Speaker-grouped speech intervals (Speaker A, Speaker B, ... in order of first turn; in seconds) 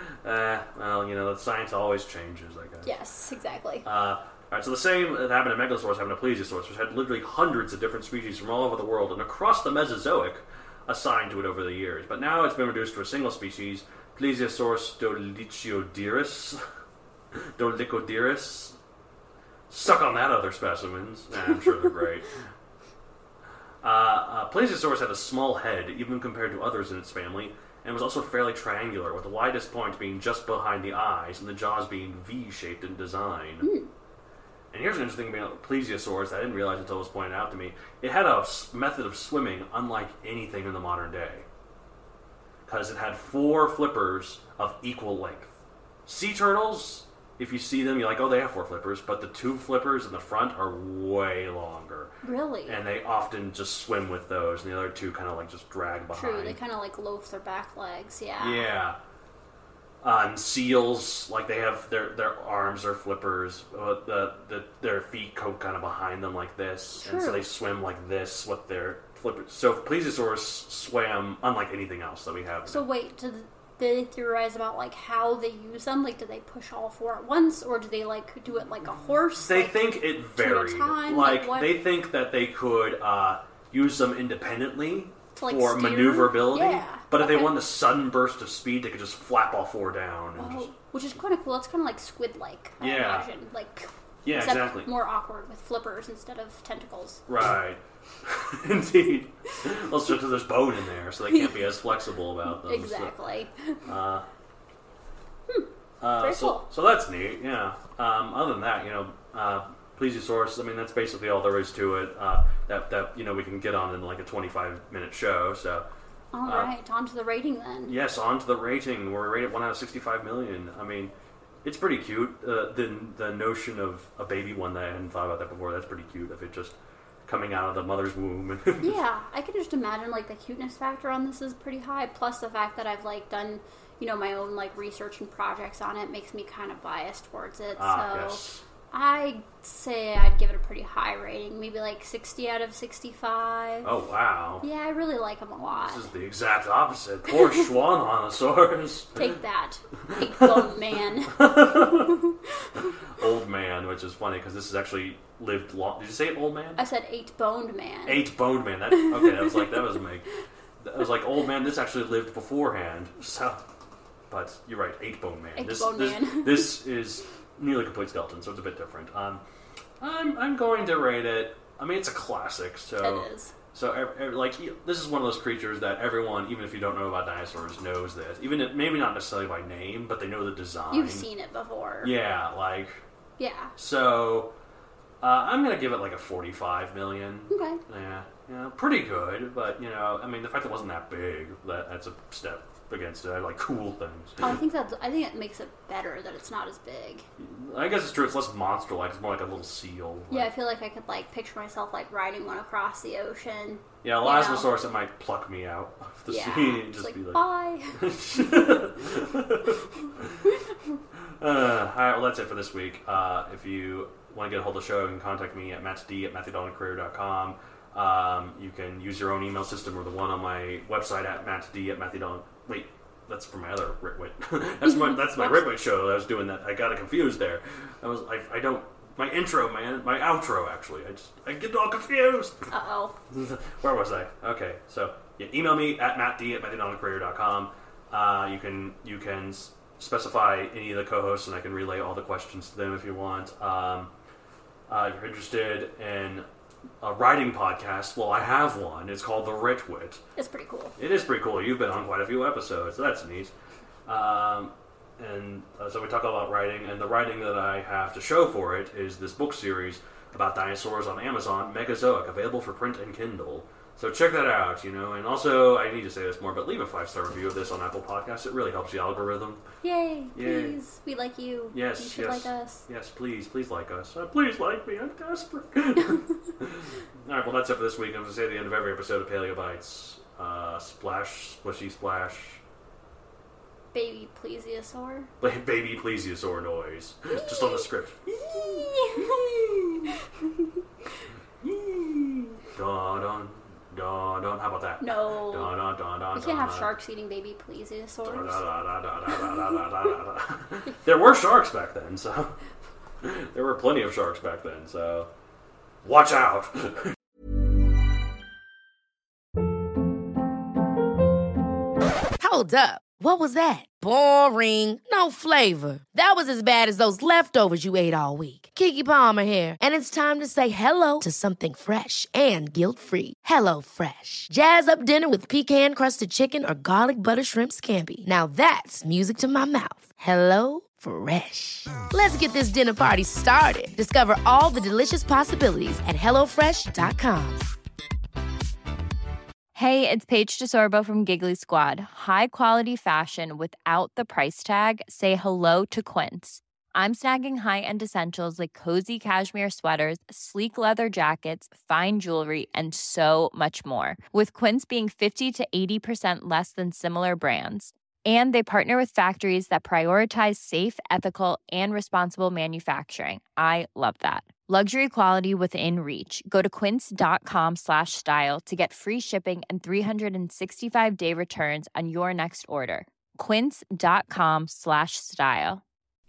Speaker A: 0.2-2.9, 3.8-16.6, 17.4-18.8, 19.7-22.3, 23.8-33.7, 34.7-41.5, 42.7-45.5, 46.0-52.1, 52.6-56.6, 58.4-59.0, 60.0-72.8, 79.4-90.7, 92.8-93.3, 94.2-94.9, 97.3-103.1, 103.8-104.2, 106.0-115.8, 117.8-126.7, 127.3-129.0, 137.8-138.6, 143.8-144.6, 145.7-149.3, 150.1-152.2, 153.2-156.8, 158.1-160.3, 160.8-163.6, 164.3-169.4, 170.0-181.3, 182.0-183.0, 183.8-184.5, 185.2-194.6, 197.4-200.5, 204.0-207.4, 207.9-210.4, 211.4-232.6, 233.3-244.1, 244.9-246.4, 247.0-250.2, 251.0-253.5, 254.1-269.6, 270.3-270.8, 271.7-282.6, 285.4-290.1, 291.6-296.9, 298.2-302.5, 303.2-305.3, 306.0-307.1
Speaker B: 2.8-3.9, 33.6-33.9, 52.2-52.8, 56.1-58.7, 67.0-67.5, 72.7-81.8, 85.3-87.6, 90.4-97.2, 101.3-101.6, 102.6-103.8, 106.2-106.7, 116.3-117.9, 128.8-143.9, 144.6-146.1, 149.2-152.9, 156.8-158.2, 158.9-159.6, 165.6-166.7, 173.0-173.5, 180.9-182.1, 183.4-183.7, 187.5-187.8, 194.4-197.2, 200.3-204.7, 206.3-208.0, 224.8-225.7, 232.7-233.2, 250.3-250.9, 269.8-272.8, 283.9-285.3, 287.3-287.8, 288.4-289.5, 295.0-295.7, 296.3-298.6
Speaker C: 312.4-337.6
Speaker D: 339.7-375.8